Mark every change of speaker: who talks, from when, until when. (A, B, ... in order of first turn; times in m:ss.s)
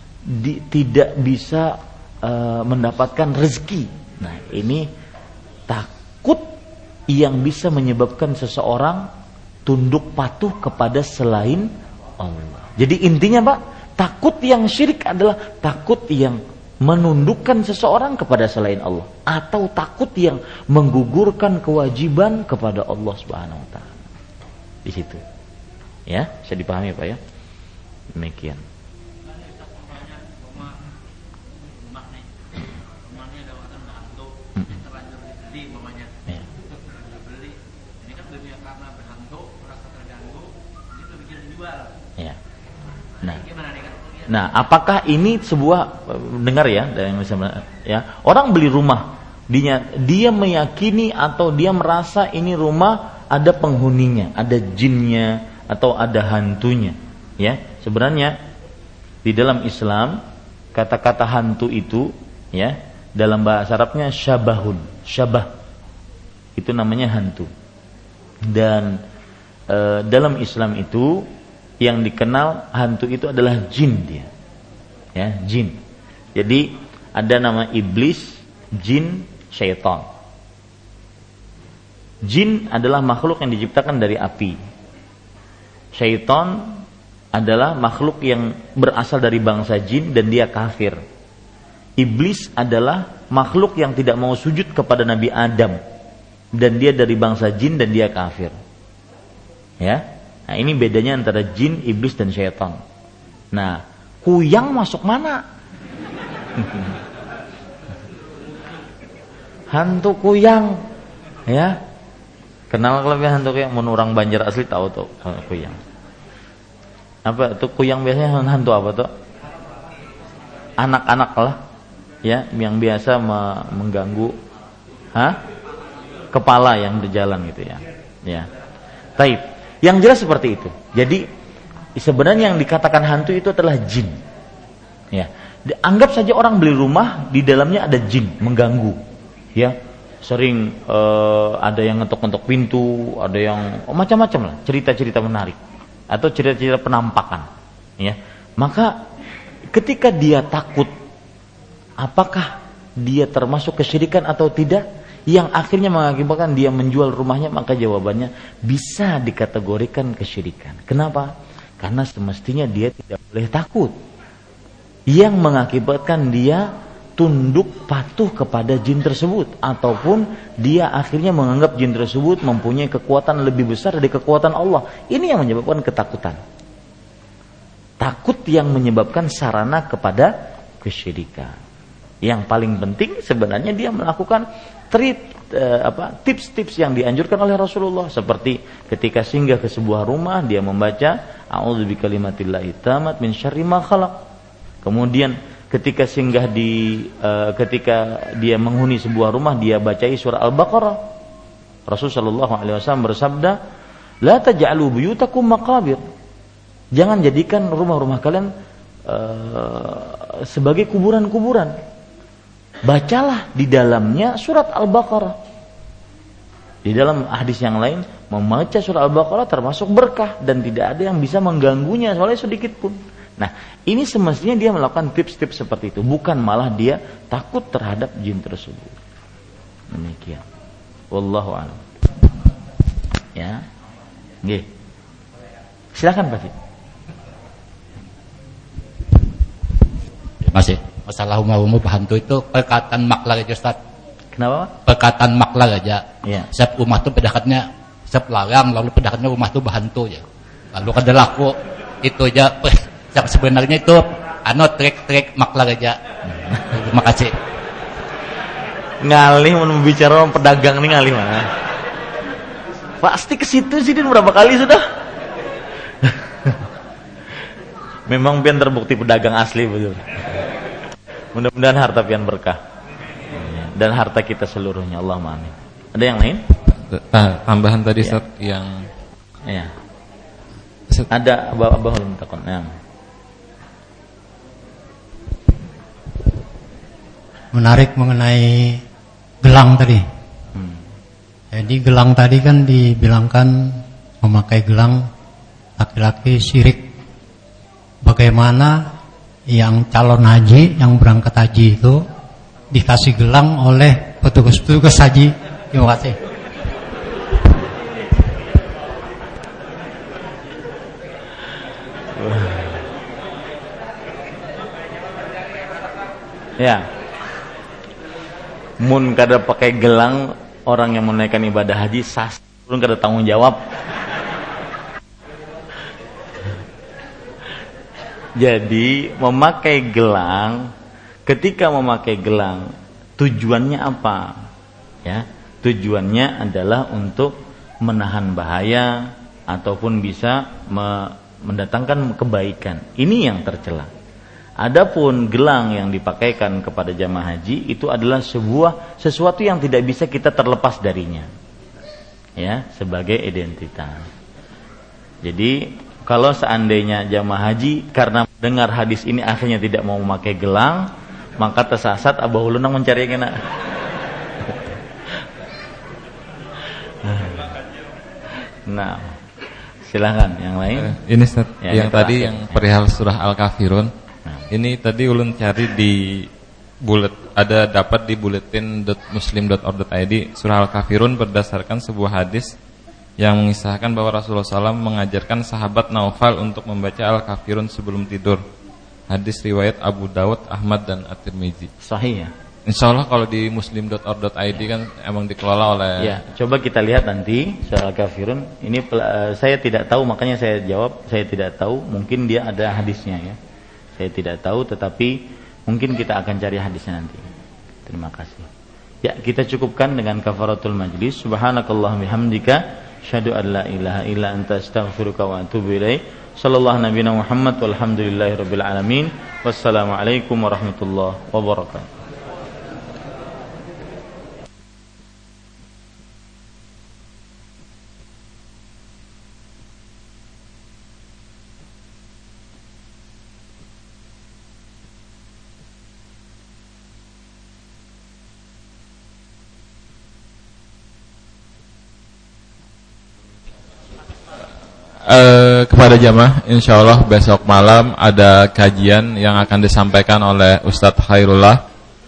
0:00.3-0:04.9 A
0:05.7-0:06.5 A
0:07.1-0:09.1 A
0:09.6-0:11.7 A
0:12.2-0:23.9 A
0:24.8-0:25.2 A
0:26.1-0:27.2 A
0:28.2-0:28.6 A
0:44.3-0:58.4 A
0:59.2-1:00.2 A
1:00.7-1:05.5 A
1:06.6-1:07.5 A
1:08.5-1:09.0 A
1:09.7-1:11.2 A
1:11.8-1:14.3 A
1:15.2-1:15.8 A
1:16.4-1:20.0 A
1:22.2-1:24.6 A
1:26.0-1:26.8 A
1:27.3-1:31.0 A
1:32.0-1:35.8 A
1:36.6-1:38.6 A
1:39.8-1:42.8 A
1:43.5-1:45.4 A
1:46.6-1:46.9 A
1:49.7-1:50.8 A
1:51.5-1:51.8 A
1:52.7-1:55.8 A
1:57.2-1:59.1 A
2:00.8-2:01.6 A
2:02.2-2:04.4 A
2:05.1-2:05.4 A
2:06.3-2:08.5 A
2:09.2-2:11.2 A
2:12.0-2:14.2 A
2:15.1-2:19.0 A
2:19.5-2:25.6 A
2:26.1-2:27.5 A
2:28.0-2:29.0 A
2:29.7-2:30.9 A
2:32.0-2:43.9 A
2:45.1-2:56.4 A
2:58.0-3:01.6 A
3:02.2-3:14.2 A
3:14.8-3:21.0 A
3:21.9-3:23.6 A
3:24.2-3:26.0 A
3:27.0-3:28.5 A
3:29.1-3:31.8 A
3:32.8-3:35.4 A
3:36.8-3:49.0 A
3:49.9-3:50.4 A
3:51.1-3:51.8 A
3:53.4-3:53.6 A
3:55.9-3:56.5 A
4:00.4-4:03.8 B
4:04.3-4:04.7 A
4:04.8-4:10.2 B
4:10.7-4:16.0 B
4:16.7-4:17.4 B
4:19.0-4:21.5 A
4:23.0-4:24.8 A
4:26.0-4:26.6 A
4:28.1-4:30.3 A
4:31.3-4:32.6 A
4:33.4-4:36.4 A
4:36.9-4:38.8 C
4:39.5-4:39.7 A
4:41.1-4:42.7 A
4:47.5-4:48.8 D
4:49.4-4:50.0 D
4:50.5-4:50.8 A
4:51.5-4:55.1 D
4:55.8-4:56.9 D
4:58.0-4:58.9 D
4:59.5-5:02.0 D
5:02.7-5:06.2 D
5:12.2-5:12.8 A
5:16.6-5:16.8 A
5:18.8-5:23.6 A
5:28.4-5:30.7 A
5:31.2-5:32.7 A
5:33.2-5:34.4 A
5:35.0-5:43.9 A
5:44.6-5:51.3 A
5:52.4-5:54.0 A
5:55.2-6:03.4 A
6:07.0-6:07.5 A
6:08.7-6:09.2 A
6:09.9-6:11.0 A
6:10.8-6:13.9 C
6:11.6-6:12.6 A
6:14.5-6:16.3 C
6:16.8-6:22.5 C
6:23.2-6:28.4 C
6:29.1-6:31.7 C
6:31.8-6:32.3 A
6:32.7-6:36.1 C
6:36.0-6:43.4 A
6:44.0-6:47.2 A
6:47.9-6:48.5 A
6:49.0-7:01.9 A
7:25.0-7:31.6 C